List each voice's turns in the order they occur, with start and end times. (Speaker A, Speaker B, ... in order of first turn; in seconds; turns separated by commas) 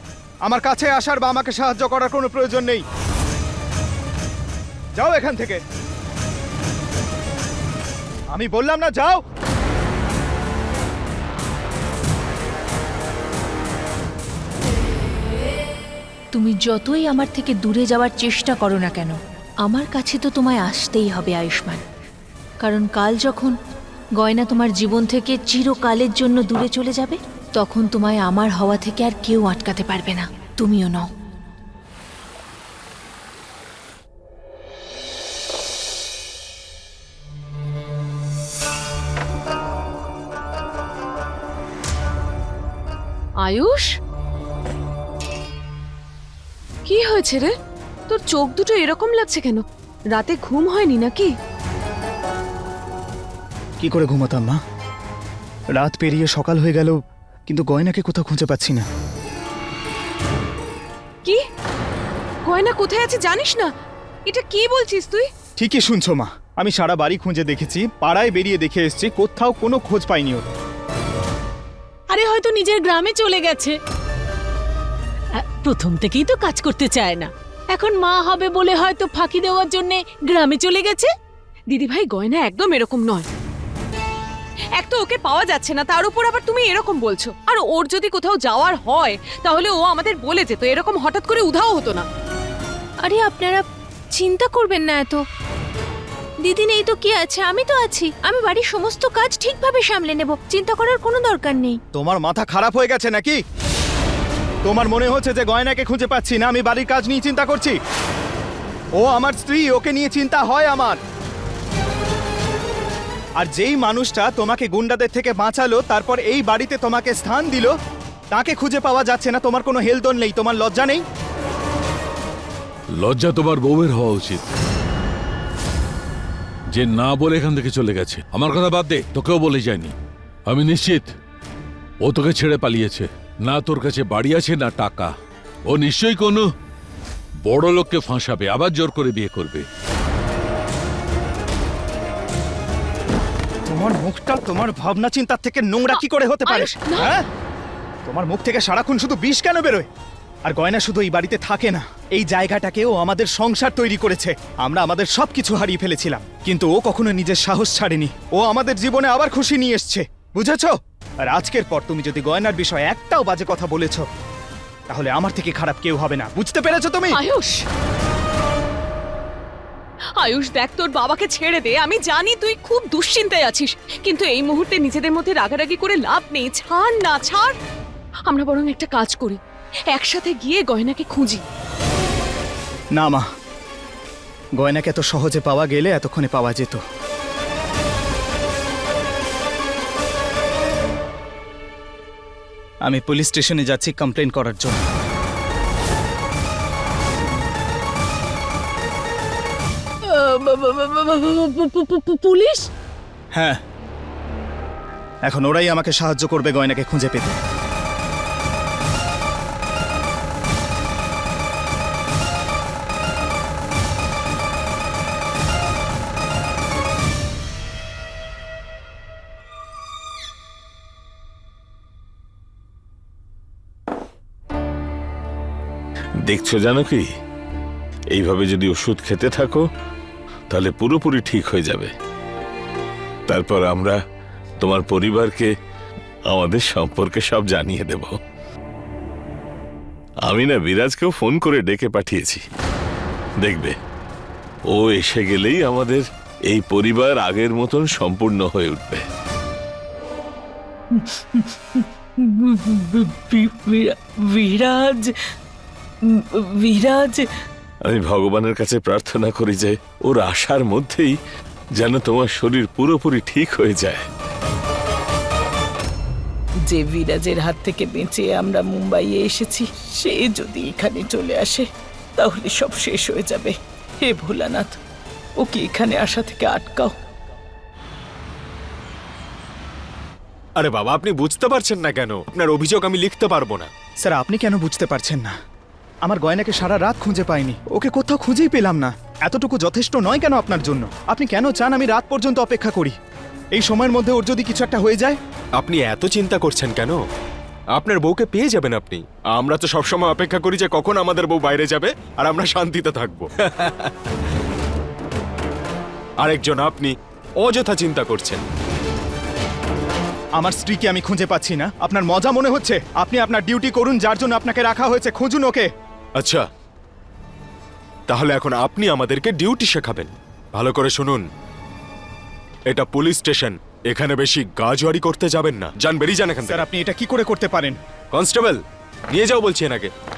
Speaker A: 0.5-2.8, Speaker A: 5.0-5.6, Speaker A: 8.3-9.2, Speaker B: 16.3-21.8, Speaker B: 22.6-23.6, Speaker B: 24.2-31.1, Speaker C: 43.4-43.9, Speaker C: 46.9-47.5, Speaker C: 48.1-51.3, Speaker A: 53.8-54.6, Speaker A: 55.8-58.9, Speaker C: 62.5-63.7, Speaker C: 64.3-65.3, Speaker A: 65.6-70.5, Speaker D: 72.1-73.8, Speaker D: 75.6-81.1, Speaker C: 81.7-83.2, Speaker C: 84.8-92.0, Speaker B: 93.0-95.2, Speaker B: 96.4-101.8, Speaker A: 101.9-103.4, Speaker A: 104.6-107.8, Speaker A: 109.0-111.0, Speaker A: 113.4-117.7, Speaker A: 118.3-121.0, Speaker E: 123.0-124.4, Speaker E: 126.7-129.9, Speaker E: 130.5-131.1, Speaker E: 132.0-135.1, Speaker E: 135.7-136.4, Speaker E: 137.4-139.6, Speaker A: 143.7-147.2, Speaker C: 146.4-147.1, Speaker A: 148.1-149.9, Speaker A: 150.5-164.1, Speaker A: 164.9-167.2, Speaker C: 167.1-167.6, Speaker C: 170.2-177.5, Speaker C: 178.3-179.4, Speaker C: 179.9-181.4, Speaker A: 182.9-183.2, Speaker A: 184.6-186.8, Speaker A: 192.8-194.8, Speaker D: 200.1-202.7, Speaker A: 203.3-203.6, Speaker A: 205.3-207.4, Speaker F: 226.3-227.1, Speaker F: 228.1-229.6, Speaker F: 230.5-231.9, Speaker F: 233.3-234.0, Speaker F: 234.6-235.5, Speaker F: 236.3-238.2, Speaker F: 240.3-242.4, Speaker F: 243.4-243.8, Speaker F: 244.7-249.0, Speaker G: 250.9-255.1, Speaker G: 256.1-257.2, Speaker F: 257.9-261.1, Speaker F: 261.8-264.0, Speaker G: 266.7-271.6, Speaker G: 272.2-273.5, Speaker G: 274.0-274.7, Speaker G: 275.4-276.9, Speaker H: 280.6-283.7, Speaker A: 284.0-285.4, Speaker A: 286.1-292.9, Speaker A: 293.6-295.2, Speaker H: 295.6-297.0, Speaker H: 297.8-303.9, Speaker H: 306.2-308.4, Speaker A: 310.4-315.7, Speaker H: 316.2-316.4, Speaker H: 318.1-321.2, Speaker H: 322.7-326.6, Speaker A: 326.4-327.8, Speaker H: 328.1-328.6, Speaker H: 329.1-329.9